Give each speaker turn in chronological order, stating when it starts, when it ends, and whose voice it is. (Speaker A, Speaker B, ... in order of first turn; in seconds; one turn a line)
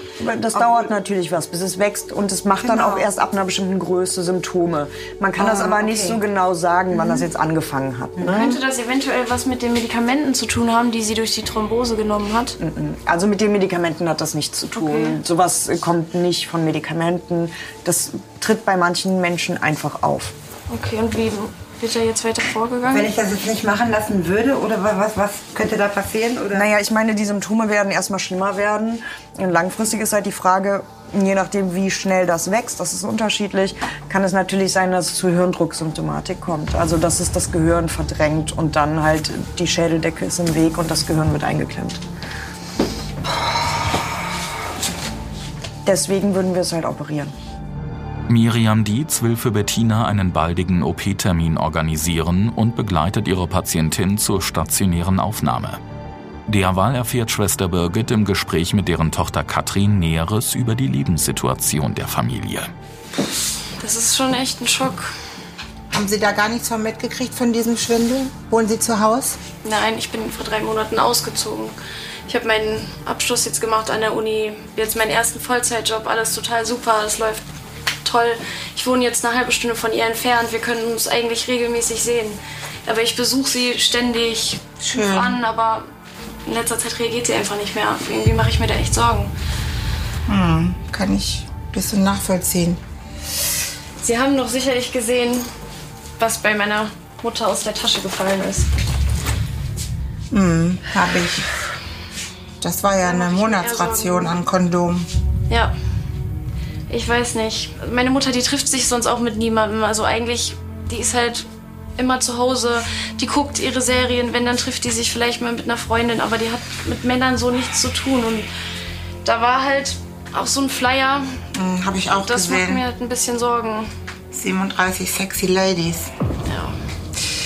Speaker A: 0.2-8.6
Speaker B: 0.5-0.9
Speaker B: 2.5-3.0
Speaker B: 5.3-6.2
Speaker B: 8.2-8.4
Speaker C: 8.3-12.6
Speaker A: 12.6-20.3
Speaker C: 14.7-15.2
Speaker C: 20.7-23.1
Speaker B: 22.8-26.7
Speaker A: 26.5-42.0
Speaker A: 45.9-47.3
Speaker D: 48.3-55.8
Speaker D: 56.5-62.7
Speaker C: 63.8-65.1
Speaker E: 65.9-69.4
Speaker C: 69.6-71.8
Speaker C: 72.3-77.4
Speaker C: 78.0-85.9
Speaker E: 84.8-85.4
Speaker C: 86.5-89.3
Speaker E: 90.3-92.8
Speaker C: 94.0-95.5
Speaker C: 96.2-98.7
Speaker E: 100.3-101.5
Speaker E: 102.6-105.1
Speaker C: 103.0-104.4
Speaker C: 106.9-118.5
Speaker C: 119.2-121.4
Speaker E: 121.5-122.8
Speaker C: 122.2-123.9
Speaker E: 124.3-126.1
Speaker C: 126.4-126.8